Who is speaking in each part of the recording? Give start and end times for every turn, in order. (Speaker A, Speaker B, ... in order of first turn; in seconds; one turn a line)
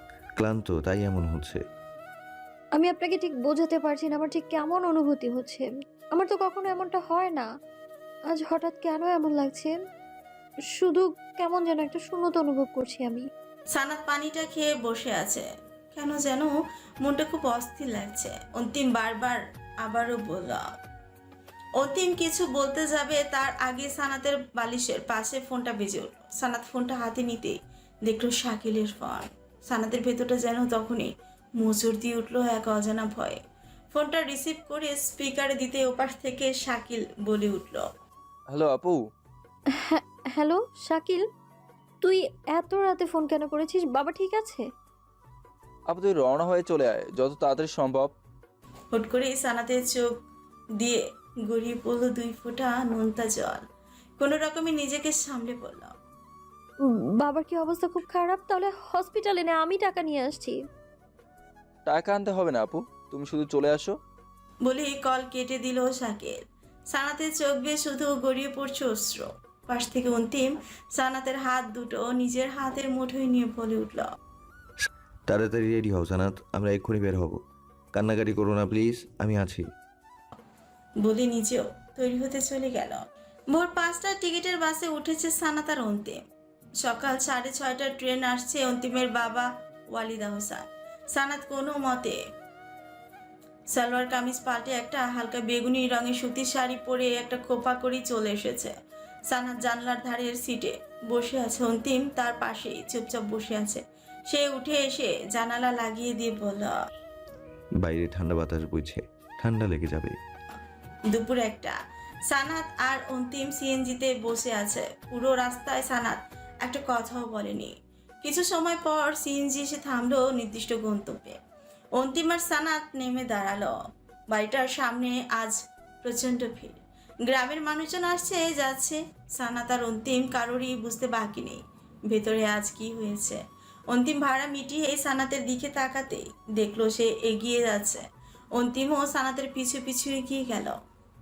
Speaker A: 0.4-1.6
Speaker B: 2.8-7.5
Speaker B: 8.3-9.7
Speaker B: 10.8-13.3
Speaker C: 13.7-20.6
Speaker C: 21.8-33.4
Speaker C: 33.9-37.9
Speaker D: 38.5-39.0
Speaker B: 39.8-41.2
Speaker B: 42.0-44.6
Speaker D: 45.9-48.1
Speaker C: 48.9-50.2
Speaker C: 50.8-53.7
Speaker C: 54.2-55.9
Speaker B: 57.2-60.6
Speaker D: 61.9-64.0
Speaker C: 64.7-74.1
Speaker A: 74.8-77.4
Speaker A: 77.9-79.7
Speaker C: 81.0-86.2
Speaker C: 86.8-92.2
Speaker C: 93.7-98.7
Speaker C: 99.3-106.8
Speaker A: 107.8-110.2
Speaker C: 111.1-111.8
Speaker C: 112.3-121.4
Speaker C: 122.0-123.8
Speaker C: 124.3-140.8